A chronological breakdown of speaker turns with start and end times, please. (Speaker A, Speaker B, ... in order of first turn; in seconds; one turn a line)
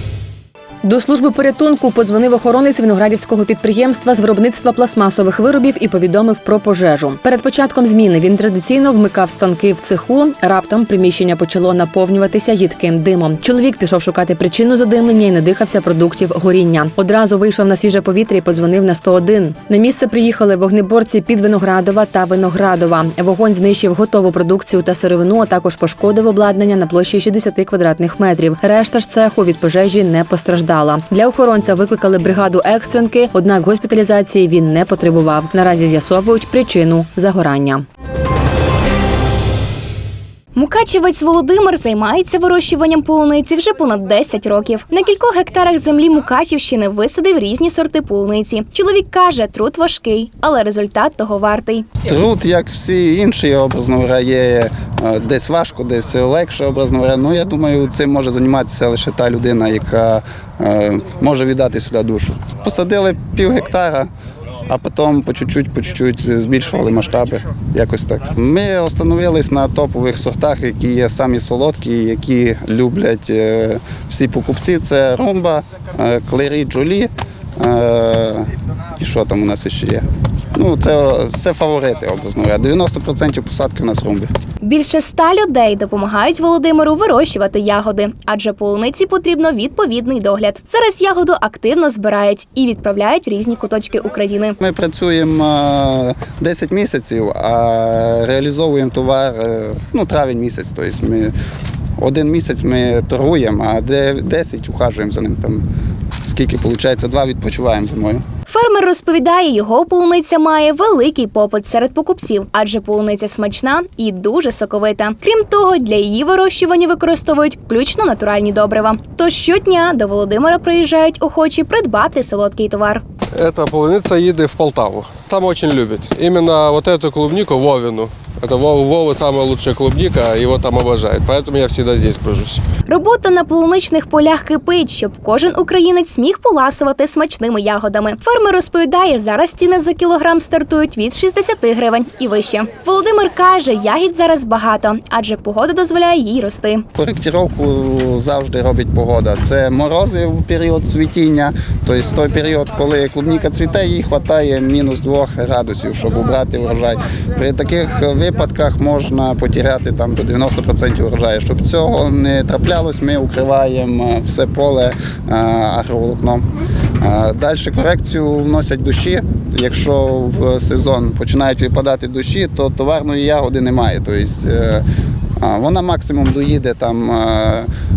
Speaker A: 0.8-37.8
Speaker B: 40.5-51.9
Speaker C: 52.0-64.1
Speaker C: 64.6-84.3
Speaker B: 84.6-94.6
Speaker C: 94.6-101.3
Speaker C: 102.0-105.6
Speaker C: 106.2-108.2
Speaker B: 108.5-123.0
Speaker D: 123.4-132.6
Speaker B: 132.9-146.8
Speaker C: 146.9-166.4
Speaker C: 167.0-174.8
Speaker C: 175.4-177.7